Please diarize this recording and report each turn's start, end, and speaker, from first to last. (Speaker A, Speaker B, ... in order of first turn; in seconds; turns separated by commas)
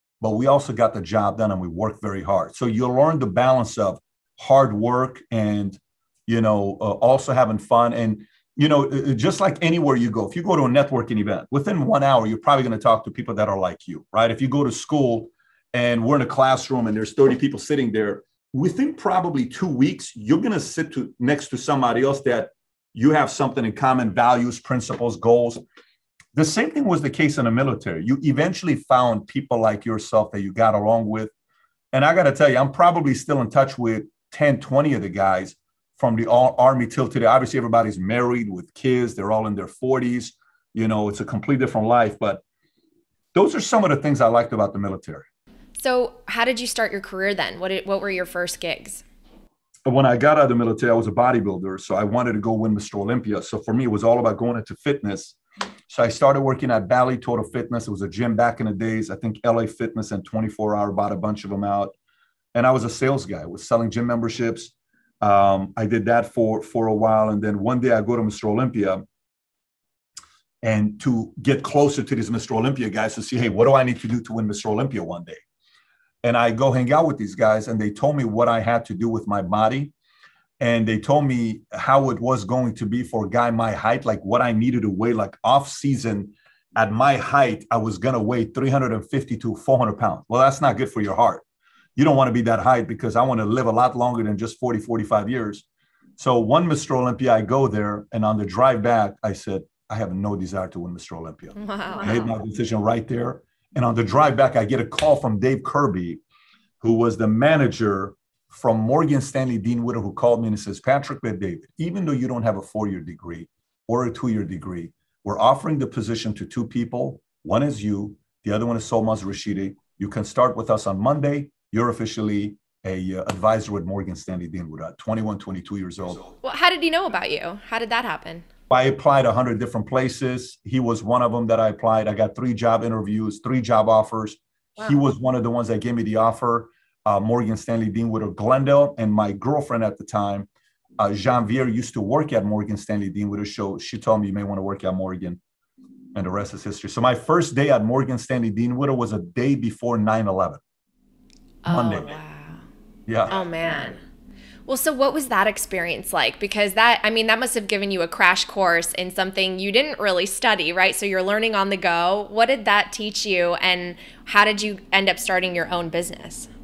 Speaker A: 0.2-25.6, Speaker A: 26.3-31.3, Speaker A: 31.9-42.4, Speaker A: 43.3-45.3, Speaker B: 45.8-49.0, Speaker A: 49.9-55.4, Speaker A: 55.9-61.9, Speaker A: 62.5-69.0, Speaker A: 70.6-75.4, Speaker A: 76.2-79.9, Speaker A: 80.6-91.4, Speaker A: 92.0-95.7, Speaker A: 96.2-106.2, Speaker B: 101.6-102.3, Speaker A: 106.8-126.2, Speaker B: 126.4-128.4, Speaker A: 128.7-140.5, Speaker A: 141.0-145.4, Speaker A: 146.1-150.6, Speaker B: 151.6-152.7, Speaker A: 151.7-152.2, Speaker A: 153.1-153.3, Speaker B: 153.3-154.0, Speaker B: 154.7-166.5